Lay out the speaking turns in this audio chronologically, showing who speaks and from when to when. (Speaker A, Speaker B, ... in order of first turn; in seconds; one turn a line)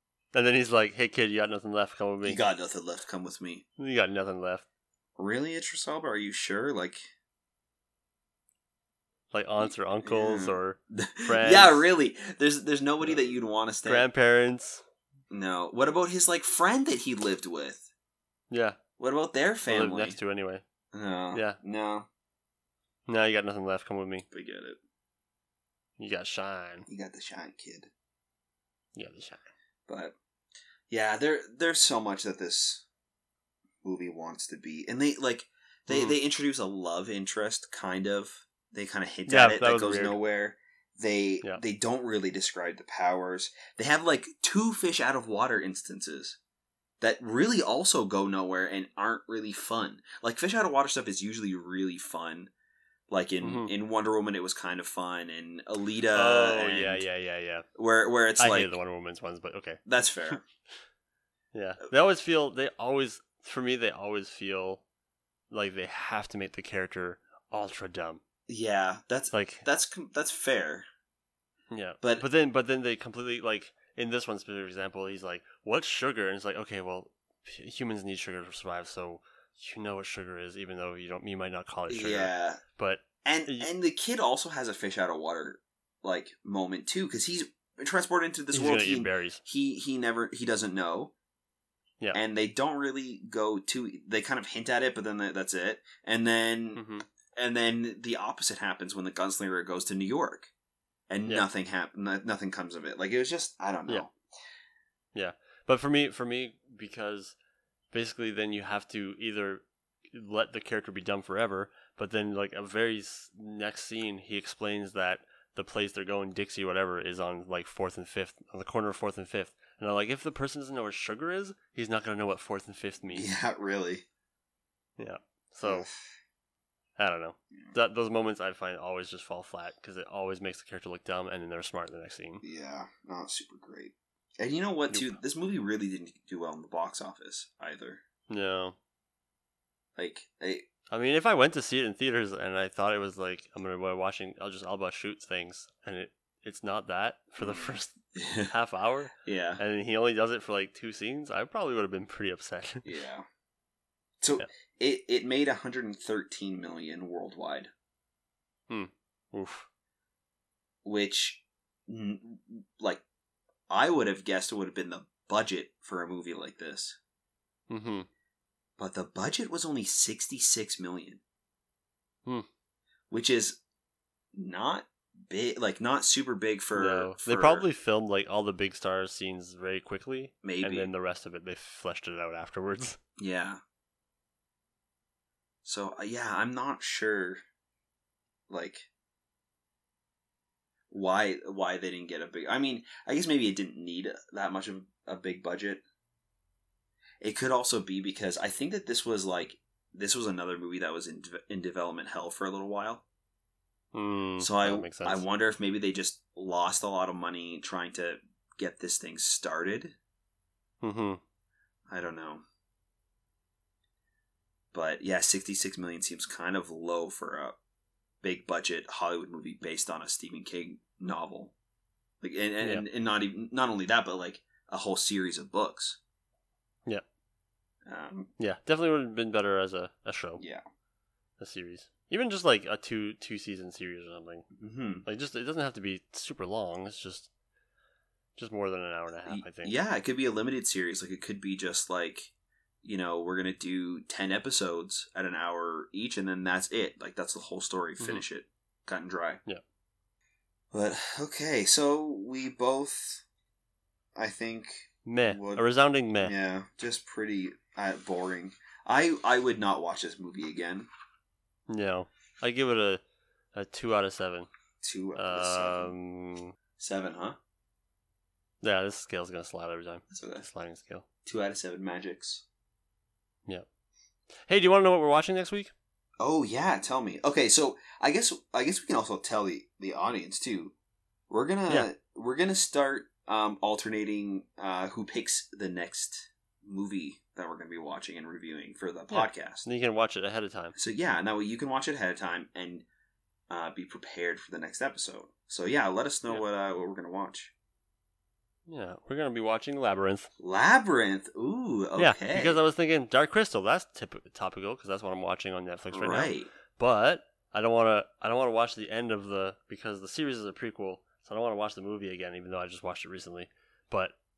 Speaker A: 0.3-2.4
Speaker B: 2.2-3.6
Speaker A: 3.8-4.7
Speaker B: 5.2-7.0
Speaker A: 9.3-11.9
Speaker B: 9.6-14.1
Speaker A: 13.8-14.8
Speaker B: 15.3-17.9
Speaker A: 18.5-18.8
Speaker B: 19.0-20.2
Speaker A: 19.7-20.6
Speaker B: 20.9-22.1
Speaker A: 21.3-21.6
Speaker A: 23.1-24.3
Speaker B: 24.3-24.8
Speaker A: 26.0-26.9
Speaker B: 26.9-27.9
Speaker A: 28.9-29.4
Speaker B: 29.9-30.1
Speaker B: 30.9-32.9
Speaker B: 33.8-46.4
Speaker A: 35.9-36.2
Speaker A: 39.3-40.2
Speaker B: 47.0-52.5
Speaker B: 53.1-57.0
Speaker A: 53.4-53.7
Speaker A: 56.1-57.7
Speaker B: 57.8-58.7
Speaker A: 58.4-60.5
Speaker B: 59.9-60.4
Speaker A: 61.5-64.8
Speaker A: 65.5-68.2
Speaker B: 68.5-70.9
Speaker A: 69.3-69.7
Speaker A: 71.7-83.7
Speaker B: 81.9-82.6
Speaker B: 83.2-91.1
Speaker A: 88.5-89.4
Speaker B: 92.1-96.8
Speaker A: 96.8-97.1
Speaker B: 97.4-100.5
Speaker B: 101.1-104.1
Speaker A: 105.1-107.4
Speaker A: 107.9-123.3
Speaker B: 123.1-124.0
Speaker A: 125.0-125.9
Speaker B: 125.6-126.1
Speaker A: 127.0-132.4
Speaker B: 132.4-138.0
Speaker A: 134.9-135.2
Speaker A: 138.3-138.8
Speaker B: 140.0-140.7
Speaker A: 140.9-148.0
Speaker B: 147.4-148.5
Speaker A: 148.5-153.0
Speaker B: 149.2-149.6
Speaker B: 152.8-153.2
Speaker B: 154.2-157.7
Speaker A: 158.7-159.7
Speaker B: 160.8-163.0
Speaker B: 163.7-167.0
Speaker A: 167.7-168.1
Speaker B: 168.8-171.2
Speaker B: 173.1-173.6
Speaker B: 174.3-177.7
Speaker A: 176.7-183.0
Speaker B: 180.4-180.9
Speaker B: 183.2-183.6
Speaker B: 185.7-187.4
Speaker B: 188.5-188.9
Speaker B: 190.9-195.8
Speaker B: 197.2-203.0
Speaker A: 203.9-205.2
Speaker B: 204.4-209.9
Speaker A: 210.8-211.2
Speaker B: 211.9-212.4
Speaker B: 214.7-217.6
Speaker B: 218.2-221.5
Speaker B: 222.2-226.0
Speaker A: 222.6-222.9
Speaker B: 227.9-228.3
Speaker A: 228.4-230.4
Speaker A: 231.4-234.5
Speaker B: 234.6-235.1
Speaker A: 235.1-237.3
Speaker A: 238.4-239.8
Speaker B: 239.3-242.3
Speaker B: 242.8-249.4
Speaker A: 248.0-248.2
Speaker B: 250.7-253.2
Speaker B: 254.2-255.7
Speaker A: 255.1-256.3
Speaker B: 256.2-260.9
Speaker A: 261.7-263.0
Speaker A: 263.5-264.5
Speaker B: 264.8-265.9
Speaker A: 265.2-266.5
Speaker B: 266.8-267.4
Speaker A: 268.6-271.1
Speaker B: 270.1-270.5
Speaker B: 271.2-272.4
Speaker A: 274.5-275.7
Speaker B: 276.2-280.8
Speaker B: 281.3-289.7
Speaker A: 289.1-290.8
Speaker B: 290.8-292.9
Speaker B: 293.5-297.5
Speaker A: 298.7-300.3
Speaker B: 300.4-302.6
Speaker A: 302.0-314.1
Speaker B: 305.9-306.5